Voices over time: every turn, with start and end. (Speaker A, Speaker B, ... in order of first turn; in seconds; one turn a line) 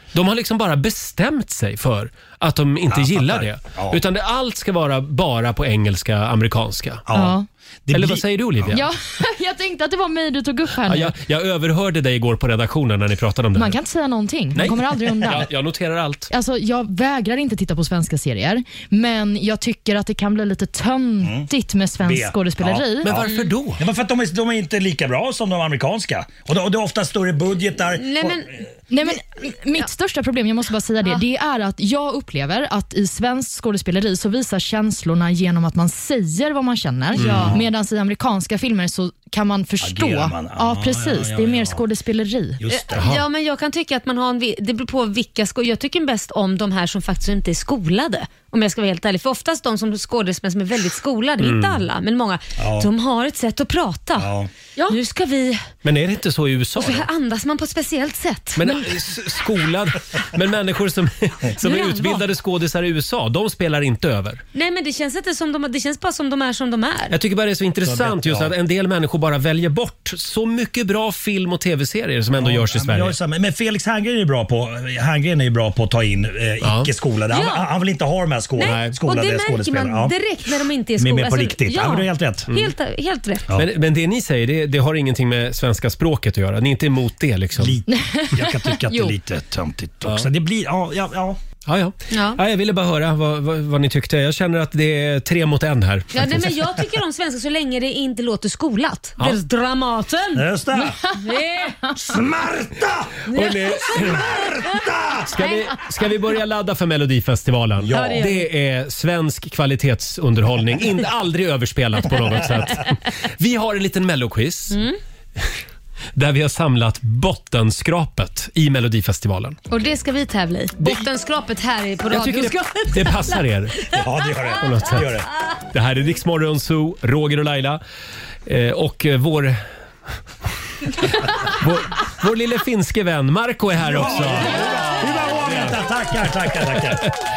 Speaker A: 0.1-7.0
Speaker B: 2.9-4.0
Speaker B: 7.1-8.8
Speaker C: 7.1-7.5
Speaker A: 7.9-8.8
Speaker C: 8.7-11.1
Speaker A: 10.8-13.8
Speaker C: 13.6-15.5
Speaker A: 14.5-16.3
Speaker C: 16.3-23.1
Speaker B: 21.2-21.5
Speaker B: 22.0-28.6
Speaker A: 23.0-23.8
Speaker D: 27.9-28.5
Speaker C: 28.9-42.6
Speaker D: 37.1-37.5
Speaker A: 37.2-37.5
Speaker B: 37.2-37.7
Speaker B: 39.8-41.8
Speaker B: 42.6-43.1
Speaker D: 42.7-54.3
Speaker A: 43.0-43.2
Speaker A: 51.4-51.8
Speaker B: 52.6-52.9
Speaker B: 54.2-54.5
Speaker D: 54.9-55.6
Speaker A: 55.8-57.1
Speaker D: 56.8-58.6
Speaker A: 58.5-64.4
Speaker D: 61.6-62.2
Speaker D: 64.5-67.1
Speaker A: 67.1-73.1
Speaker B: 67.8-68.5
Speaker B: 72.3-80.1
Speaker A: 76.6-76.9
Speaker D: 77.3-77.7
Speaker D: 78.6-83.4
Speaker A: 78.6-78.9
Speaker B: 81.0-82.5
Speaker A: 83.5-87.8
Speaker B: 87.5-91.4
Speaker C: 87.9-89.1
Speaker A: 91.7-96.8
Speaker D: 92.1-92.4
Speaker D: 96.1-100.5
Speaker B: 100.3-101.0
Speaker D: 101.1-101.8
Speaker B: 102.0-103.1
Speaker D: 103.3-104.6
Speaker A: 103.3-104.2
Speaker B: 103.8-105.3
Speaker A: 105.2-114.8
Speaker D: 105.4-105.7
Speaker B: 107.8-108.2
Speaker D: 107.9-108.5
Speaker D: 114.7-115.0
Speaker A: 116.1-119.6
Speaker D: 119.7-123.4
Speaker A: 120.8-121.0
Speaker A: 122.1-123.7
Speaker B: 123.9-125.3
Speaker A: 124.6-125.2
Speaker A: 125.7-127.8
Speaker A: 128.4-129.6
Speaker A: 131.0-135.8
Speaker B: 133.8-137.1
Speaker D: 134.3-134.9
Speaker A: 136.7-137.1